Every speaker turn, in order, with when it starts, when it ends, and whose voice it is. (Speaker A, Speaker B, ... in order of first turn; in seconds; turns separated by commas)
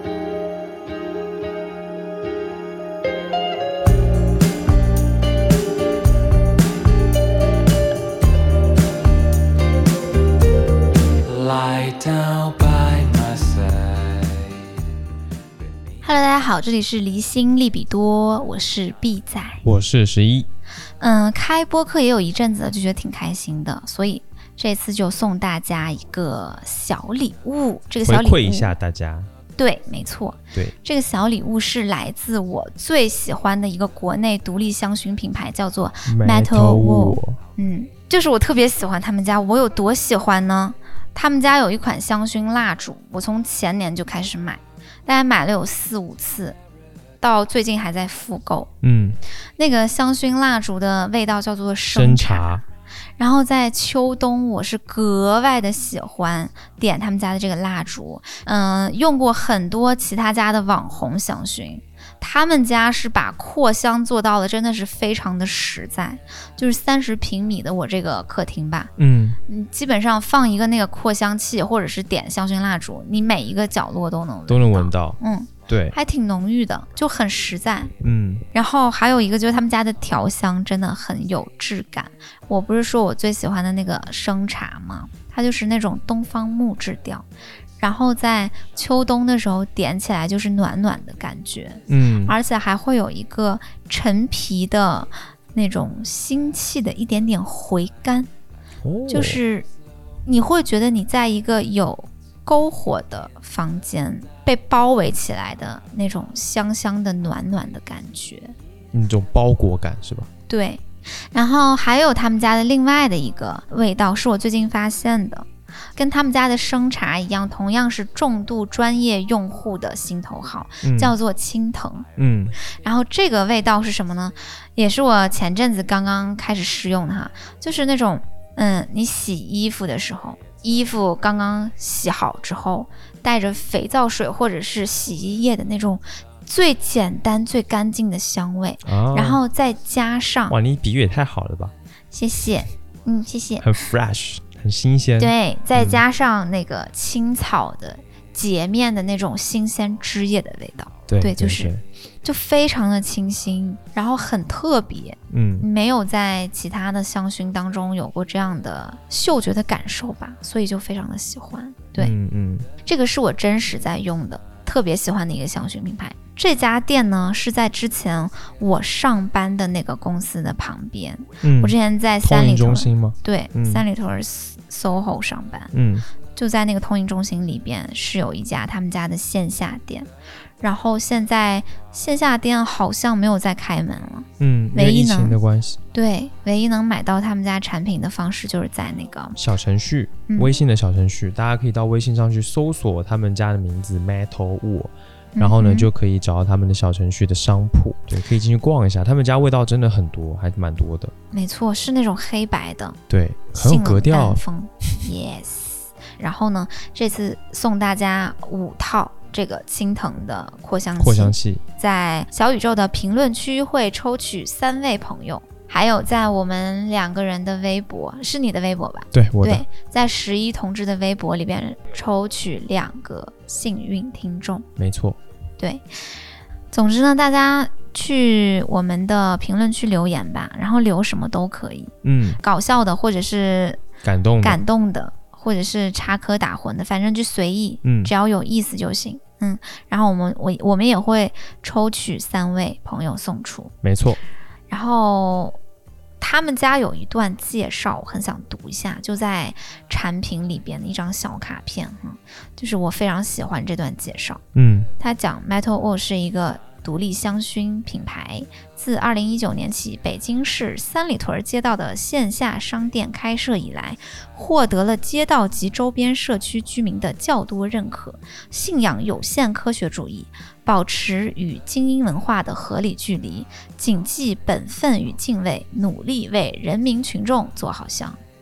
Speaker A: 11.2-14.8, Speaker B: 16.0-19.6, Speaker C: 19.6-20.5, Speaker B: 21.0-28.7, Speaker C: 28.0-29.3, Speaker B: 29.6-46.6, Speaker C: 36.1-37.4, Speaker B: 47.2-48.7, Speaker C: 48.8-49.2, Speaker B: 49.6-52.5, Speaker C: 51.9-52.6, Speaker B: 53.2-68.9, Speaker C: 69.0-69.4, Speaker B: 69.5-77.9, Speaker C: 74.5-76.0, Speaker C: 78.0-78.5, Speaker B: 78.5-87.3, Speaker B: 87.8-98.3, Speaker C: 91.9-92.4, Speaker C: 98.8-99.4, Speaker B: 99.1-99.7, Speaker B: 100.3-108.5, Speaker C: 108.9-110.3, Speaker B: 110.5-122.1, Speaker C: 120.8-121.2, Speaker C: 122.2-122.5, Speaker B: 122.6-140.6, Speaker C: 138.8-139.4, Speaker C: 140.5-141.7, Speaker B: 142.1-143.7, Speaker C: 143.6-146.1, Speaker B: 145.2-151.7, Speaker C: 151.1-151.8, Speaker B: 152.2-162.1, Speaker C: 155.3-155.7, Speaker C: 162.0-162.7, Speaker B: 162.8-175.7, Speaker C: 171.4-173.8, Speaker C: 175.7-176.1, Speaker B: 176.3-180.1, Speaker B: 180.6-185.4, Speaker C: 184.4-185.8, Speaker B: 185.9-189.4, Speaker C: 189.4-201.1, Speaker B: 190.3-190.6, Speaker B: 195.3-195.9, Speaker B: 201.3-203.0, Speaker C: 203.1-204.4, Speaker B: 203.6-224.7, Speaker C: 211.0-211.6, Speaker C: 219.1-219.7, Speaker C: 224.8-225.2, Speaker B: 225.6-233.8, Speaker C: 232.0-232.4, Speaker C: 234.0-234.6, Speaker B: 234.4-243.7, Speaker C: 237.8-238.1, Speaker C: 243.8-244.2, Speaker B: 244.7-245.6, Speaker B: 246.2-254.4, Speaker C: 254.5-254.9, Speaker B: 255.0-278.2